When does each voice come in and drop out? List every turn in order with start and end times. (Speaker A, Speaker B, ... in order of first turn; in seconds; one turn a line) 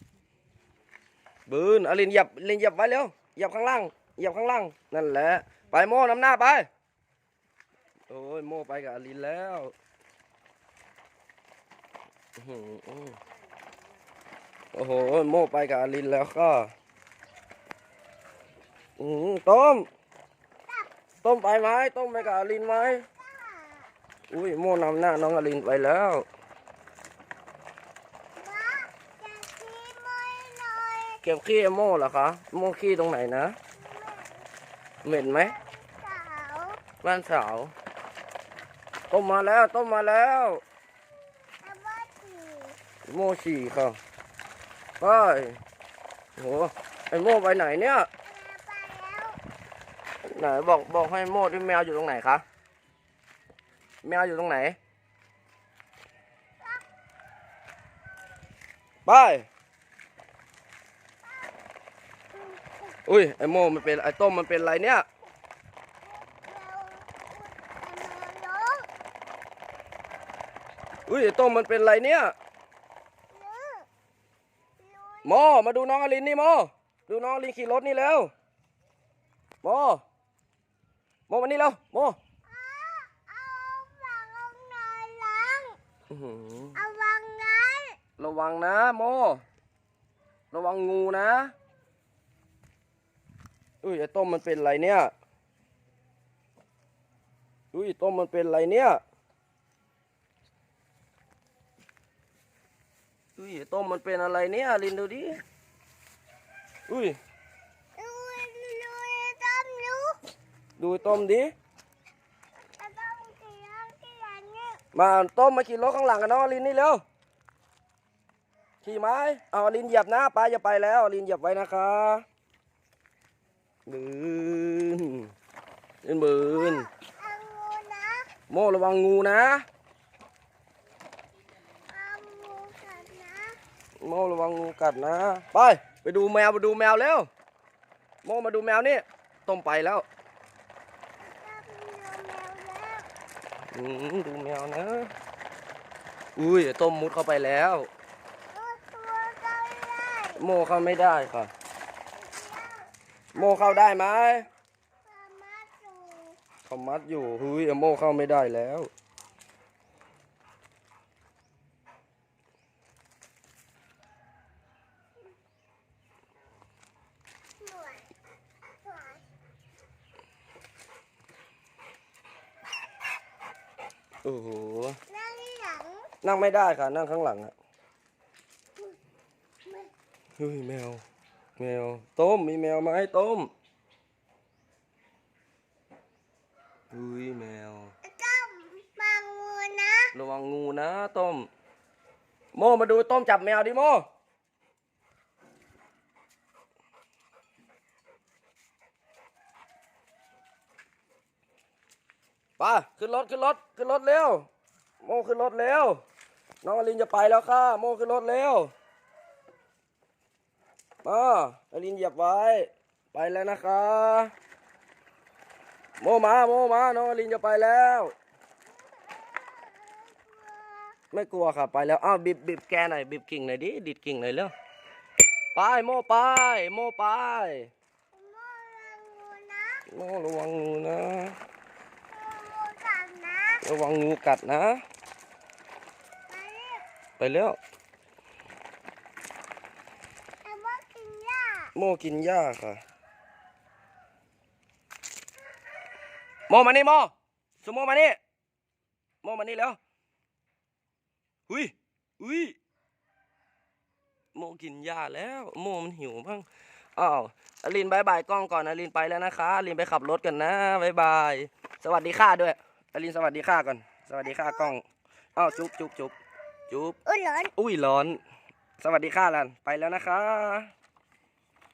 Speaker A: 1.5-6.7
Speaker A: 8.1-9.7
Speaker A: 12.4-13.2
Speaker A: 14.7-16.7
Speaker A: 19.0-19.9
Speaker A: 21.2-23.1
Speaker B: 22.1-23.9
Speaker A: 24.3-26.2
Speaker B: 28.4-31.2
Speaker A: 31.2-33.6
Speaker B: 33.8-34.5
Speaker A: 35.0-35.5
Speaker B: 35.1-36.8
Speaker A: 37.0-37.7
Speaker A: 39.1-40.6
Speaker B: 41.6-42.8
Speaker A: 43.0-44.0
Speaker A: 45.0-45.6
Speaker A: 46.4-48.1
Speaker B: 48.2-49.4
Speaker A: 50.2-52.4
Speaker A: 54.0-54.8
Speaker A: 59.1-59.5
Speaker B: 61.2-61.5
Speaker B: 62.3-63.0
Speaker A: 63.0-65.0
Speaker B: 66.0-68.9
Speaker A: 71.1-72.3
Speaker B: 73.3-73.9
Speaker B: 74.8-75.4
Speaker A: 75.2-78.3
Speaker A: 79.6-80.0
Speaker A: 81.3-82.2
Speaker B: 82.5-85.8
Speaker A: 86.1-86.8
Speaker B: 86.8-88.0
Speaker A: 88.2-89.4
Speaker A: 90.5-91.5
Speaker A: 93.8-95.1
Speaker A: 97.7-99.0
Speaker A: 103.4-105.4
Speaker A: 106.9-107.2
Speaker B: 108.0-110.2
Speaker A: 110.8-111.5
Speaker B: 112.8-114.8
Speaker A: 114.9-117.0
Speaker A: 118.8-122.2
Speaker A: 123.9-125.3
Speaker A: 126.0-126.9
Speaker B: 126.4-128.3
Speaker A: 128.5-129.7
Speaker B: 131.9-133.6
Speaker A: 134.0-137.3
Speaker A: 138.2-140.1
Speaker B: 141.2-143.1
Speaker A: 143.7-145.1
Speaker A: 146.4-147.9
Speaker B: 148.5-150.4
Speaker A: 150.4-151.5
Speaker B: 152.1-154.5
Speaker A: 153.3-154.5
Speaker B: 155.1-156.4
Speaker A: 156.7-158.9
Speaker B: 167.6-168.1
Speaker B: 168.8-169.2
Speaker A: 174.2-175.0
Speaker B: 175.1-176.1
Speaker A: 176.2-177.5
Speaker A: 180.4-181.0
Speaker A: 181.6-183.5
Speaker A: 186.9-187.9
Speaker B: 188.0-190.1
Speaker A: 190.1-191.5
Speaker A: 192.5-194.1
Speaker A: 202.6-204.5
Speaker A: 205.0-206.0
Speaker A: 206.6-208.7
Speaker A: 211.0-214.3
Speaker A: 216.0-218.1
Speaker B: 218.8-221.0
Speaker A: 221.1-224.5
Speaker A: 225.5-227.7
Speaker B: 228.1-229.8
Speaker A: 229.9-231.4
Speaker B: 232.1-233.6
Speaker A: 233.6-234.8
Speaker B: 236.3-236.8
Speaker A: 237.2-237.6
Speaker B: 240.4-241.7
Speaker A: 241.8-242.8
Speaker A: 246.5-248.2
Speaker A: 249.2-249.8
Speaker A: 251.5-252.6
Speaker A: 254.3-264.8
Speaker B: 264.2-264.7
Speaker A: 265.4-266.1
Speaker A: 266.7-267.0
Speaker B: 267.1-267.5
Speaker A: 267.6-268.2
Speaker A: 268.8-270.7